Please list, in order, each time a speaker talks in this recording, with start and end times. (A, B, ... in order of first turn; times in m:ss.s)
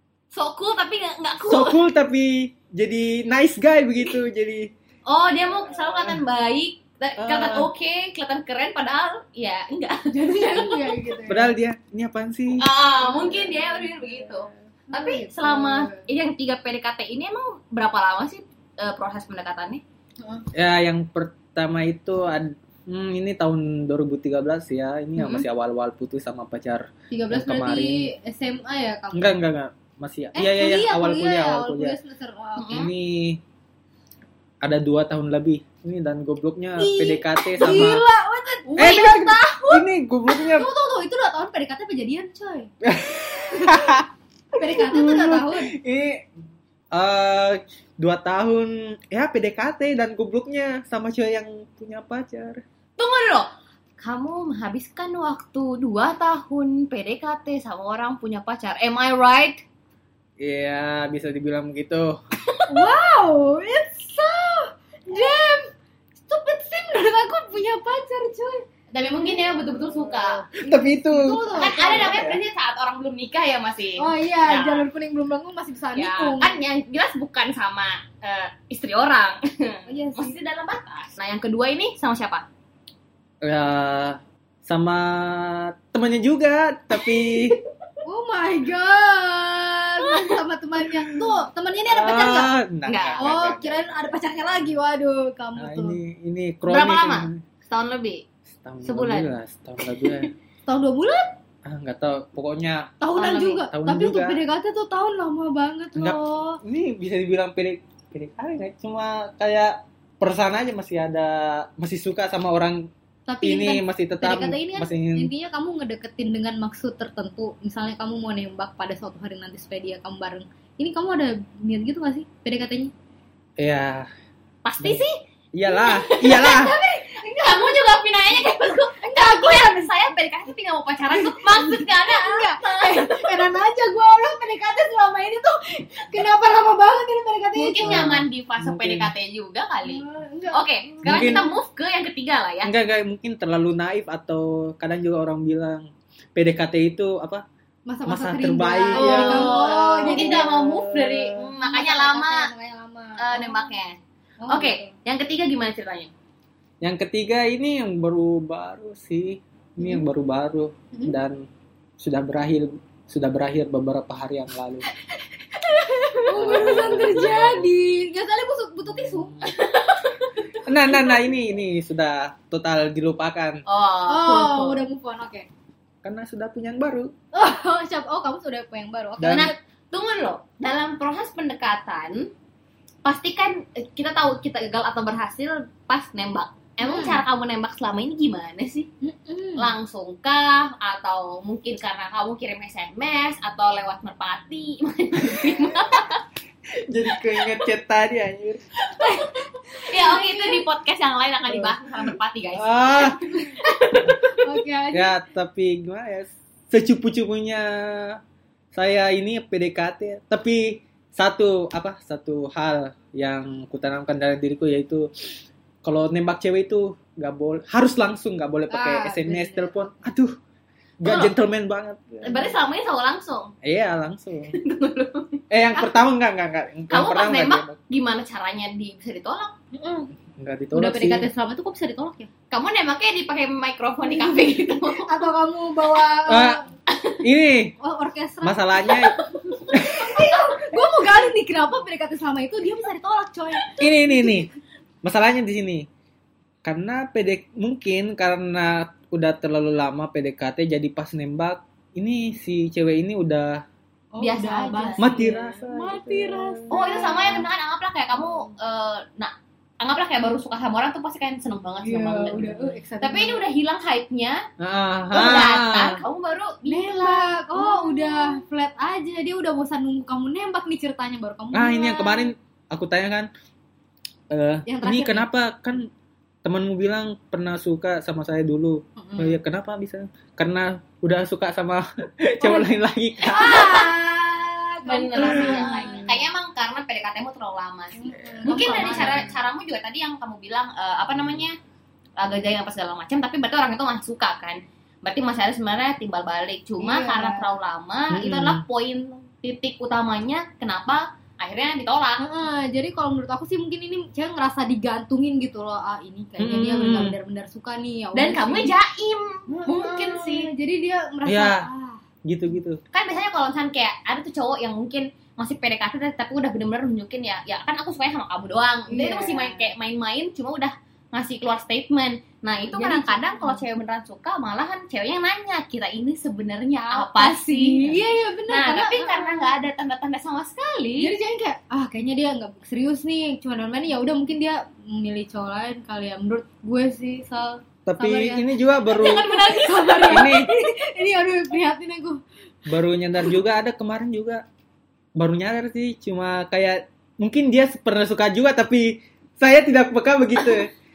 0:00.3-0:01.8 A
0:01.5-0:04.7 B
0:05.1-0:11.1 A
0:07.2-0:07.7 B
0:10.1-0:11.6 C
0:11.3-0:12.7 B
0:12.5-0:19.8 A
0:14.9-0:16.0 C
0:20.2-0:20.5 C
0:20.5-0:28.1 B
0:25.2-0:25.4 A
0:27.1-0:29.4 C
0:29.1-0:32.0 B
0:30.4-0:32.9 C
0:32.6-0:32.9 A
0:32.7-0:33.4 B
0:34.6-0:38.0 B
0:36.8-0:42.7 C
0:38.8-0:40.7 B
0:42.8-0:44.1 B
0:43.6-0:44.0 C
0:44.6-0:45.7 C
0:44.8-0:46.2 B
0:46.9-0:52.6 B
0:53.0-0:59.6 A
1:00.4-1:02.2 B
1:02.7-1:05.6 C
1:06.2-1:08.6 C
1:08.9-1:10.4 A
1:10.5-1:12.4 B
1:10.5-1:12.2 C
1:11.5-1:14.9 A
1:14.0-1:16.6 C
1:15.9-1:22.5 A
1:19.9-1:20.4 C
1:23.4-1:27.6 B
1:26.9-1:27.6 A
1:28.0-1:32.6 C
1:30.0-1:30.4 A
1:31.9-1:33.8 B
1:32.9-1:33.3 A
1:33.2-1:36.0 C
1:35.6-1:37.4 B
1:36.7-1:38.3 A
1:38.5-1:40.3 B
1:38.8-1:39.3 A
1:40.0-1:40.3 A
1:40.7-1:41.3 C
1:41.6-1:43.0 B
1:43.0-1:46.6 C
1:43.1-1:43.6 A
1:43.7-1:44.4 B
1:46.0-1:52.9 B
1:53.3-2:02.9 C
1:53.4-1:55.3 B
2:03.6-2:04.1 B
2:04.6-2:05.2 A
2:05.5-2:06.8 B
2:05.7-2:09.9 C
2:05.9-2:06.5 A
2:07.2-2:13.3 A
2:11.1-2:18.1 C
2:17.5-2:22.7 A
2:17.8-2:19.1 B
2:19.8-2:21.5 C
2:21.0-2:21.5 B
2:22.6-2:27.4 B
2:27.9-2:30.6 C
2:28.1-2:31.5 B
2:28.9-2:32.5 A
2:31.6-2:33.7 C
2:33.2-2:34.0 A
2:34.4-2:34.9 C
2:34.5-2:36.1 A
2:36.8-2:41.4 B
2:39.8-2:40.0 C
2:42.0-2:44.9 B
2:45.8-2:47.2 A
2:46.2-2:49.5 C
2:46.4-2:47.5 B
2:48.9-2:49.5 B
2:49.4-2:50.1 A
2:50.6-2:53.6 B
2:50.9-2:51.2 C
2:53.7-2:54.8 A
2:54.1-2:55.5 C
2:56.0-2:57.1 B
2:57.3-2:59.6 C
2:59.2-2:59.5 B
2:59.2-3:02.3 A
3:03.0-3:08.9 A
3:06.8-3:07.2 C
3:09.0-3:09.7 C
3:09.6-3:16.2 A
3:16.9-3:18.6 B
3:18.9-3:20.6 C
3:19.8-3:24.5 A
3:22.6-3:23.2 B
3:24.3-3:25.2 C
3:24.9-3:28.2 B
3:28.7-3:35.1 B
3:35.8-3:40.4 B
3:38.7-3:40.1 C
3:41.0-3:42.5 B
3:41.0-3:41.4 A
3:42.2-3:43.5 A
3:43.6-3:44.6 B
3:44.6-3:45.4 A
3:45.5-3:47.8 B
3:46.9-3:49.5 A
3:49.7-3:50.1 C
3:50.4-3:51.3 B
3:50.7-3:52.3 C
3:52.5-3:55.3 A
3:54.0-3:56.7 C
3:56.3-3:56.6 B
3:56.9-3:57.2 A
3:57.2-3:57.8 B
3:57.8-4:04.5 C
3:58.4-3:59.2 B
3:59.7-4:00.3 B
4:03.8-4:04.5 B
4:05.0-4:05.9 B
4:06.6-4:13.6 B
4:14.1-4:17.5 C
4:14.2-4:15.1 A
4:15.0-4:16.7 B
4:16.7-4:24.4 A
4:18.2-4:18.5 C
4:21.8-4:23.4 C
4:24.6-4:26.0 B
4:25.1-4:28.4 A
4:26.7-4:32.3 C
4:31.5-4:33.3 B
4:34.3-4:35.9 B
4:34.7-4:35.3 C
4:36.4-4:43.8 B
4:39.0-4:39.4 C
4:42.4-4:42.7 C
4:43.3-4:44.0 A
4:43.3-4:46.2 C
4:44.8-4:51.6 A
4:45.2-4:45.7 B
4:48.0-4:49.4 C
4:48.1-4:48.9 B
4:52.2-5:02.2 A
4:56.8-4:57.5 C
4:58.1-4:58.6 B
5:02.2-5:08.8 C
5:06.4-5:07.2 B
5:08.1-5:10.5 A
5:09.5-5:12.0 C
5:11.3-5:11.7 B
5:12.3-5:12.8 B
5:12.9-5:31.2 A
5:18.9-5:19.7 C
5:22.7-5:23.7 C
5:26.9-5:29.5 C
5:31.0-5:42.2 C
5:37.8-5:39.3 B
5:38.9-5:40.3 A
5:40.1-5:40.5 B
5:42.7-5:44.4 B
5:45.2-5:50.7 B
5:50.4-5:50.6 A